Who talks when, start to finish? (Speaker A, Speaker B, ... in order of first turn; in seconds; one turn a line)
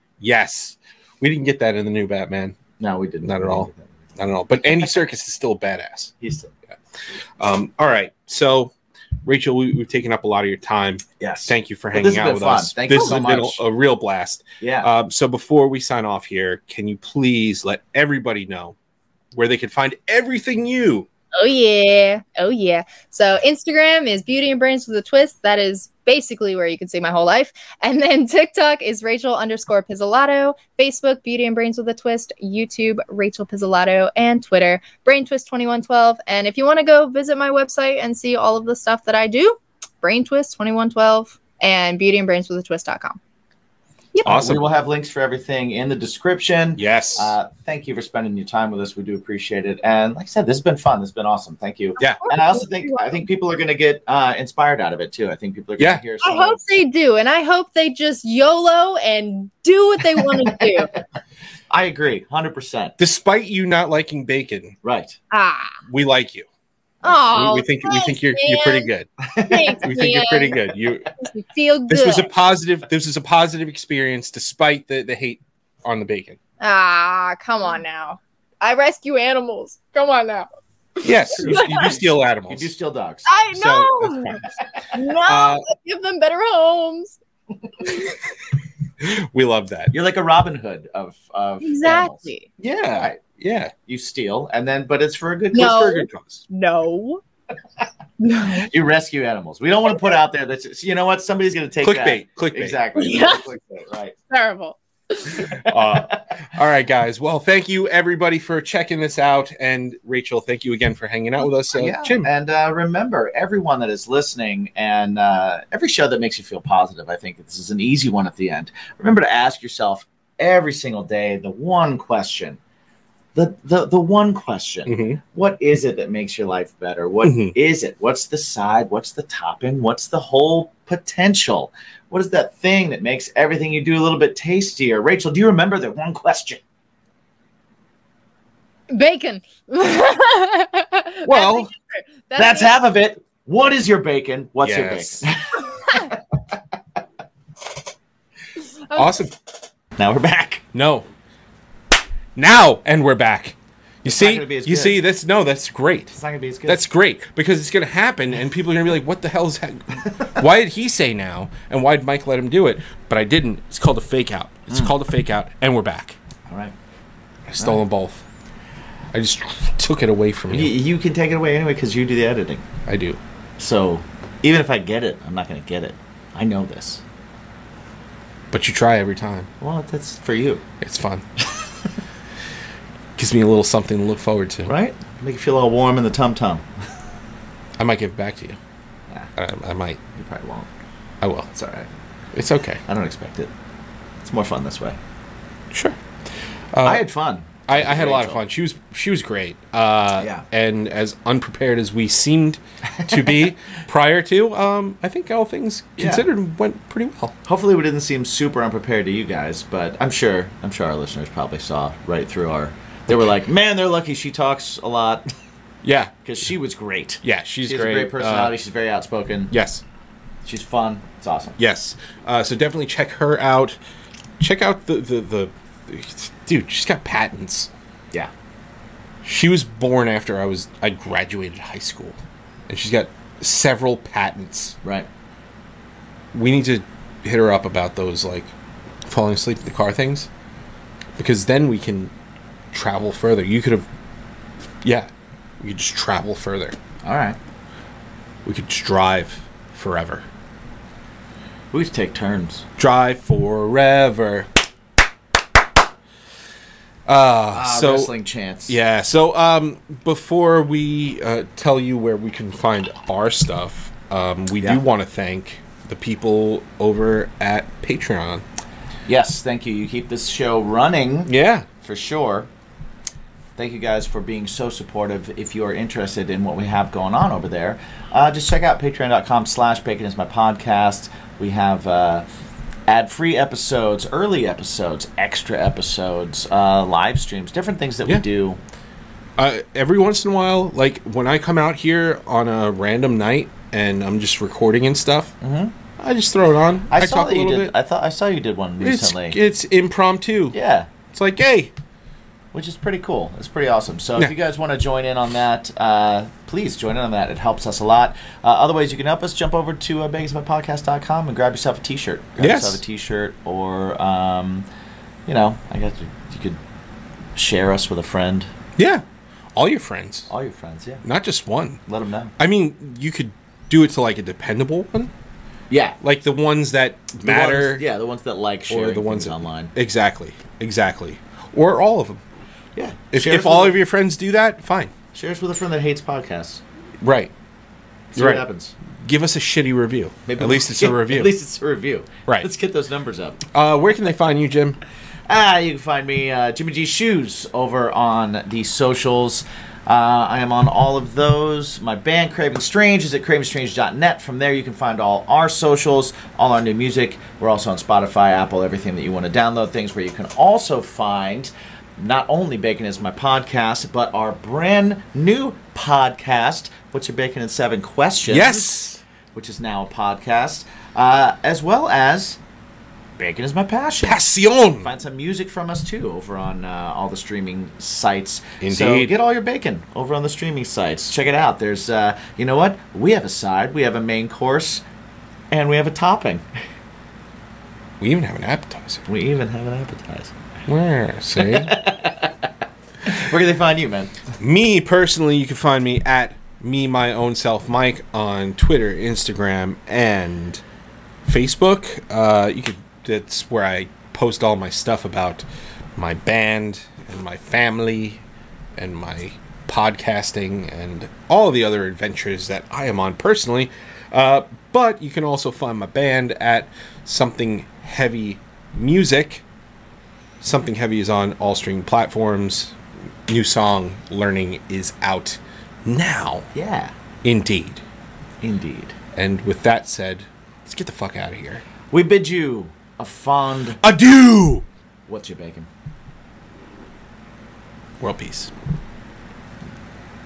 Speaker A: 0.2-2.6
Speaker B: 2.8-3.9
Speaker A: 3.2-6.1
Speaker B: 6.2-6.5
Speaker A: 7.4-8.7
Speaker A: 9.2-18.8
Speaker B: 11.2-13.6
Speaker B: 14.6-14.9
Speaker A: 19.3-21.1
Speaker C: 21.4-43.2
Speaker B: 44.2-56.6
Speaker A: 44.2-44.7
Speaker A: 46.8-47.4
Speaker C: 52.0-53.2
Speaker C: 56.2-60.9
Speaker B: 61.7-63.0
Speaker A: 63.0-64.8
Speaker B: 64.8-65.2
Speaker C: 65.3-65.8
Speaker A: 65.9-66.5
Speaker C: 67.0-68.9
Speaker A: 67.1-69.1
Speaker B: 69.3-69.8
Speaker C: 69.5-70.6
Speaker A: 69.8-71.1
Speaker C: 71.2-72.3
Speaker A: 71.9-76.4
Speaker C: 76.6-80.5
Speaker C: 81.0-81.9
Speaker A: 81.0-82.7
Speaker B: 81.4-82.0
Speaker B: 82.5-83.3
Speaker C: 83.3-87.2
Speaker A: 83.5-84.5
Speaker A: 85.2-85.7
Speaker A: 89.0-89.9
Speaker B: 89.9-93.2
Speaker C: 91.6-92.5
Speaker A: 92.6-93.7
Speaker B: 93.9-95.9
Speaker C: 95.5-97.2
Speaker A: 95.6-96.5
Speaker C: 98.2-98.7
Speaker B: 98.4-104.2
Speaker A: 101.8-102.8
Speaker C: 103.0-103.4
Speaker C: 104.3-105.7
Speaker A: 105.5-112.3
Speaker B: 111.7-122.6
Speaker B: 123.3-136.6
Speaker A: 124.9-125.2
Speaker A: 127.2-127.5
Speaker C: 138.9-142.8
Speaker A: 141.3-141.7
Speaker B: 142.4-146.2
Speaker A: 144.6-145.3
Speaker A: 148.9-149.3
Speaker B: 150.0-150.6
Speaker A: 150.7-151.1
Speaker A: 152.4-166.2
Speaker B: 154.1-155.0
Speaker B: 156.1-156.9
Speaker B: 166.5-166.7
Speaker A: 167.5-168.2
Speaker A: 169.1-170.7
Speaker B: 170.5-172.7
Speaker A: 172.9-173.2
Speaker B: 173.6-177.0
Speaker A: 178.5-179.5
Speaker B: 179.6-180.7
Speaker A: 180.8-181.2
Speaker A: 183.2-184.7
Speaker B: 184.7-186.7
Speaker A: 187.8-188.6
Speaker A: 189.4-190.0
Speaker B: 190.2-190.7
Speaker A: 191.2-191.5
Speaker B: 191.5-191.9
Speaker A: 192.3-192.8
Speaker B: 192.9-193.5
Speaker B: 194.2-195.0
Speaker A: 196.7-197.0
Speaker B: 196.8-198.4
Speaker A: 197.7-207.3
Speaker B: 200.2-200.4
Speaker B: 203.1-203.3
Speaker B: 206.0-206.2
Speaker B: 207.4-215.2
Speaker A: 215.8-216.2
Speaker B: 216.2-219.5
Speaker A: 217.2-218.5
Speaker A: 219.5-219.8
Speaker B: 220.4-221.6
Speaker A: 221.6-223.8
Speaker A: 224.4-227.7
Speaker A: 229.2-234.8
Speaker B: 234.8-235.1
Speaker A: 236.3-238.5
Speaker A: 239.1-240.3
Speaker A: 241.2-242.1
Speaker A: 242.7-243.9
Speaker A: 244.8-245.1
Speaker A: 245.6-246.8
Speaker B: 247.0-247.4
Speaker A: 248.4-250.2
Speaker B: 251.7-252.7
Speaker A: 252.8-254.5
Speaker A: 257.1-258.1
Speaker B: 257.5-258.8
Speaker A: 258.7-268.4
Speaker B: 269.1-271.3
Speaker A: 271.3-271.7
Speaker B: 271.8-272.5
Speaker B: 273.6-282.3
Speaker B: 282.9-288.6
Speaker A: 289.4-295.3
Speaker B: 295.4-295.8
Speaker A: 296.0-297.7
Speaker B: 296.9-299.4
Speaker A: 298.8-301.7
Speaker B: 300.5-300.9
Speaker B: 302.5-314.7
Speaker A: 312.4-312.8
Speaker B: 315.3-316.6
Speaker B: 317.4-318.5
Speaker A: 318.8-319.0
Speaker A: 319.6-320.3
Speaker B: 320.3-321.1
Speaker A: 321.1-321.8
Speaker B: 321.9-322.3
Speaker A: 322.4-325.1
Speaker B: 325.7-326.0
Speaker A: 326.0-327.8
Speaker B: 327.2-329.7
Speaker A: 328.7-332.2
Speaker B: 332.8-333.8
Speaker A: 333.1-334.9
Speaker B: 335.1-336.6
Speaker A: 337.0-337.3
Speaker B: 338.1-338.7
Speaker A: 338.1-338.4
Speaker A: 339.0-341.3
Speaker B: 340.3-343.4
Speaker A: 343.5-344.8
Speaker B: 345.3-368.7
Speaker A: 368.3-369.0
Speaker B: 369.3-372.4
Speaker B: 373.2-374.2
Speaker A: 374.0-374.9
Speaker B: 374.8-384.8
Speaker A: 378.6-379.1
Speaker B: 385.5-386.4
Speaker A: 388.0-389.1
Speaker B: 389.1-390.4
Speaker A: 390.7-391.8
Speaker B: 391.4-392.5
Speaker B: 393.0-394.2
Speaker A: 394.4-400.6
Speaker A: 401.2-405.4
Speaker A: 406.0-408.2
Speaker A: 408.8-419.4
Speaker A: 420.4-422.8
Speaker A: 423.3-426.5
Speaker B: 426.6-426.9
Speaker A: 427.2-427.8
Speaker B: 428.4-429.0
Speaker A: 429.1-431.6
Speaker B: 431.9-433.8
Speaker A: 433.8-434.6
Speaker B: 435.1-435.7
Speaker A: 438.0-438.5